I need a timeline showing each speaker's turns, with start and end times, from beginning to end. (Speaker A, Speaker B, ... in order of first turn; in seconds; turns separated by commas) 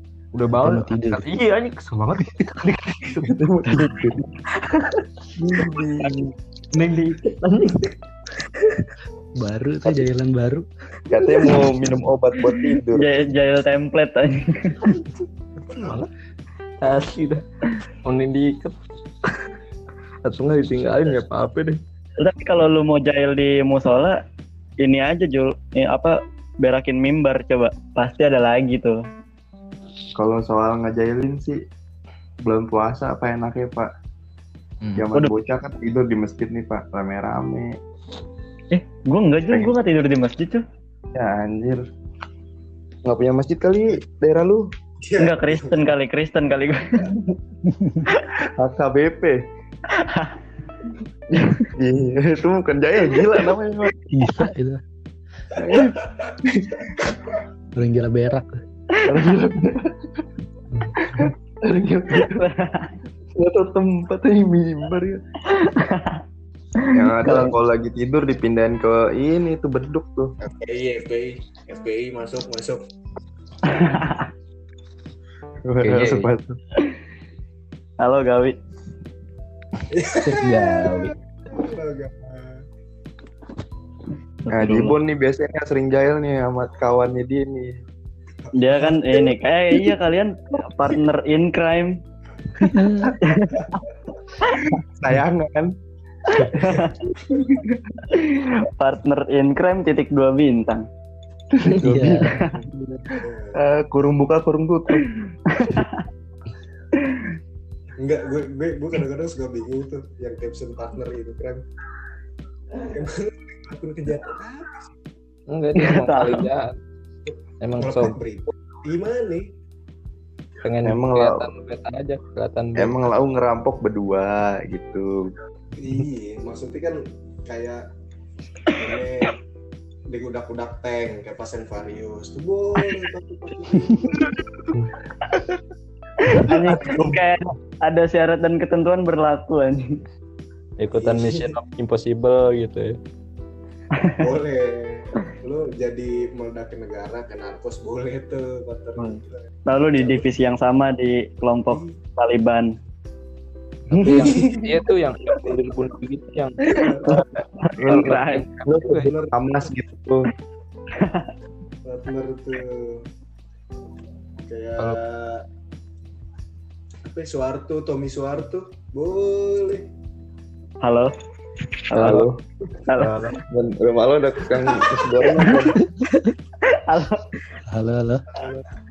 Speaker A: 0.3-3.9, Speaker B: 0.6-1.2, Speaker C: 3.2-4.2, Speaker A: 4.5-5.0, Speaker C: 5.3-6.3, Speaker A: 6.8-8.8, Speaker B: 9.4-10.6, Speaker C: 11.1-13.1, Speaker D: 12.9-15.0, Speaker E: 15.7-16.0, Speaker A: 15.8-16.1, Speaker A: 16.8-19.5, Speaker A: 20.2-21.8, Speaker D: 22.2-24.2, Speaker D: 24.8-29.0, Speaker C: 30.1-31.6, Speaker C: 32.4-33.9, Speaker A: 34.8-35.1, Speaker C: 35.0-37.7, Speaker D: 38.7-40.6, Speaker C: 41.1-41.9, Speaker C: 43.0-44.7, Speaker E: 45.0-45.8, Speaker D: 45.2-47.1, Speaker B: 47.7-48.0, Speaker C: 48.4-49.4, Speaker D: 50.0-50.4, Speaker C: 51.3-53.9, Speaker D: 51.4-51.7, Speaker B: 54.1-54.8, Speaker E: 55.5-56.3, Speaker C: 55.6-57.4, Speaker B: 57.8-58.5, Speaker C: 59.0-60.2, Speaker A: 60.7-61.2, Speaker C: 61.0-62.5, Speaker D: 62.1-62.9, Speaker C: 63.4-65.2, Speaker D: 65.5-66.2, Speaker D: 66.8-67.5, Speaker C: 66.9-70.3, Speaker E: 70.4-72.8, Speaker D: 73.7-74.2, Speaker C: 75.6-76.6, Speaker A: 75.8-76.3, Speaker D: 78.0-78.5, Speaker E: 79.9-82.6, Speaker B: 80.2-81.1, Speaker D: 84.5-85.0, Speaker C: 84.5-87.7, Speaker E: 88.4-89.0, Speaker D: 88.5-92.0, Speaker B: 92.6-93.1, Speaker D: 93.2-93.8, Speaker D: 94.4-94.8, Speaker C: 94.7-95.7, Speaker D: 96.3-97.3, Speaker C: 97.4-97.8, Speaker D: 98.1-100.8, Speaker C: 101.5-102.5, Speaker B: 101.8-102.4, Speaker E: 103.1-103.6, Speaker C: 103.5-105.1, Speaker D: 105.5-106.0, Speaker D: 107.0-107.3, Speaker E: 108.0-111.6, Speaker E: 112.9-114.9, Speaker A: 115.5-116.7, Speaker D: 115.8-116.5, Speaker E: 117.3-119.5, Speaker A: 117.6-118.2, Speaker A: 120.6-122.9, Speaker C: 120.8-121.5, Speaker C: 122.8-125.3, Speaker E: 125.7-127.8, Speaker E: 128.7-129.4, Speaker E: 130.1-134.3, Speaker C: 135.3-135.6, Speaker D: 136.2-139.9, Speaker C: 136.5-137.2, Speaker E: 136.7-137.1, Speaker A: 140.8-143.0, Speaker E: 140.9-141.5, Speaker E: 144.2-150.3, Speaker D: 149.0-152.7, Speaker E: 151.7-152.0, Speaker E: 153.9-155.8, Speaker A: 154.0-157.2, Speaker E: 156.7-157.2, Speaker D: 156.8-158.5, Speaker C: 157.8-160.3, Speaker A: 157.8-159.1, Speaker E: 159.0-159.6, Speaker D: 160.9-161.3, Speaker E: 161.8-163.0, Speaker E: 164.4-165.4, Speaker E: 167.0-169.9, Speaker D: 170.8-171.1, Speaker D: 171.8-172.2, Speaker C: 171.9-172.4, Speaker A: 172.0-172.3, Speaker D: 172.8-173.2, Speaker A: 172.9-173.4, Speaker C: 173.5-175.8, Speaker E: 174.6-175.0, Speaker D: 175.3-175.7, Speaker B: 176.0-176.3, Speaker D: 176.7-177.2, Speaker B: 177.7-178.2